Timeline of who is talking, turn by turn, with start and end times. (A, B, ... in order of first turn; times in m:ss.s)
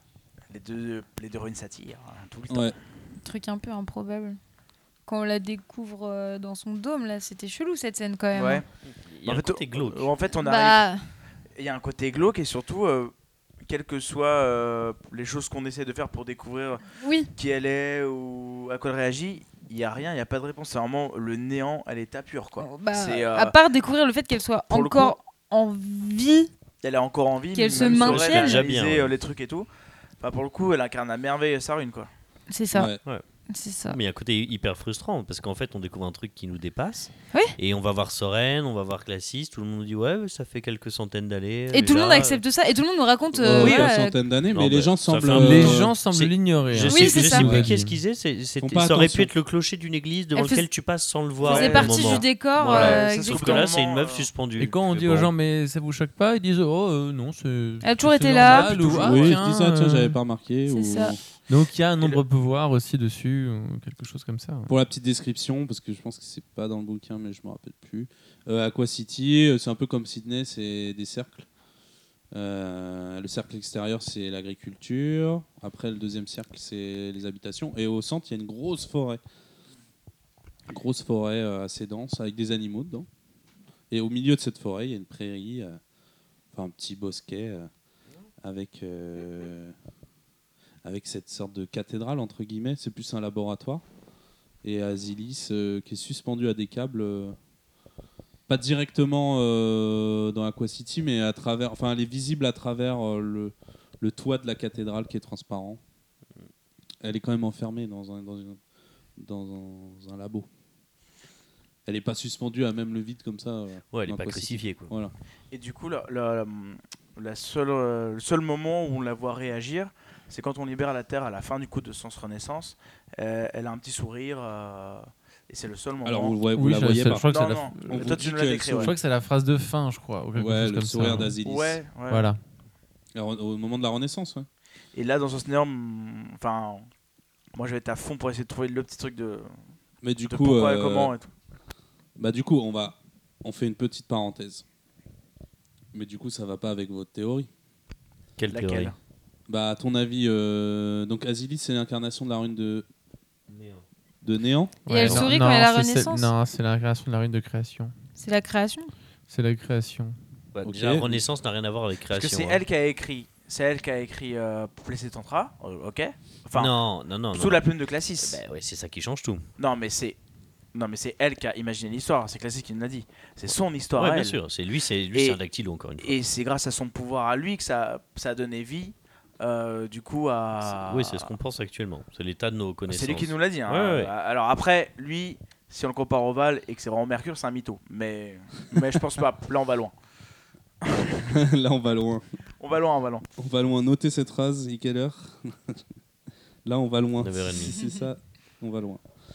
0:00.5-0:02.8 A
0:02.5-0:02.7 B
0:03.2-0:04.4 C
0:05.0-0:08.6 C
0:08.3-0:08.6 A
0:09.0-0:10.1 D
0:09.2-0:10.8 A
0:10.4-0:11.0 C
0:11.5-0:13.1 A
0:13.6-0:23.5 A
0:16.9-0:17.3 C
0:22.6-0:26.5 C
0:24.7-0:25.2 A
0:26.8-0:29.7 A
0:27.5-0:28.6 C
0:27.7-0:29.1 D
0:30.2-0:32.1 A
0:32.5-0:32.9 C
0:32.7-0:33.0 B
0:33.5-0:34.0 C
0:33.9-0:42.4 D
0:41.7-0:44.2 C
0:43.4-0:45.9 B
0:44.5-0:55.3 D
0:45.3-0:48.0 E
0:46.9-0:47.5 C
0:47.4-0:47.7 B
0:48.6-0:49.3 B
0:50.3-0:50.7 C
0:51.4-0:53.7 C
0:51.4-0:54.3 A
0:54.6-1:00.2 E
0:57.8-0:58.8 C
0:58.5-1:01.2 B
0:58.7-0:59.2 A
1:00.7-1:01.1 C
1:01.5-1:04.7 E
1:04.7-1:11.4 B
1:12.3-1:19.2 B
1:20.7-1:23.1 B
1:23.9-1:25.8 B
1:26.5-1:27.7 B
1:28.4-1:29.7 B
1:30.8-1:33.8 B
1:34.6-1:37.4 B
1:38.5-1:45.8 B
1:47.0-1:48.6 B
1:49.2-1:50.5 B
1:51.8-1:55.1 B
1:53.9-1:54.9 D
1:55.5-2:06.4 A
2:06.0-2:07.3 B
2:06.5-2:11.4 E
2:07.1-2:08.9 A
2:07.9-2:08.9 B
2:10.4-2:11.8 B
2:11.4-2:12.3 A
2:12.1-2:12.4 E
2:13.1-2:14.5 B
2:14.9-2:16.9 A
2:17.5-2:19.5 A
2:20.0-2:21.1 B
2:20.2-2:21.3 A
2:22.2-2:24.6 B
2:25.9-2:27.5 B
2:28.4-2:28.9 D
2:28.5-2:28.9 A
2:29.5-2:32.8 B
2:33.5-2:33.8 D
2:34.2-2:34.8 B
2:34.8-2:36.3 C
2:34.8-2:37.9 E
2:35.0-2:35.3 D
2:38.2-2:38.9 C
2:39.3-2:40.2 E
2:40.5-2:42.6 D
2:40.6-2:41.2 B
2:42.1-2:46.7 A
2:46.5-2:47.6 D
2:47.3-2:48.4 A
2:48.2-2:49.5 D
2:49.6-2:50.2 A
2:50.7-2:54.4 A
2:54.0-2:56.2 D
2:56.0-3:01.3 A
3:00.6-3:04.1 D
3:02.9-3:09.9 A
3:10.8-3:11.3 A
3:11.2-3:12.2 B
3:12.6-3:13.2 A
3:13.4-3:15.8 B
3:16.6-3:19.0 B
3:17.2-3:17.8 D
3:17.7-3:18.0 C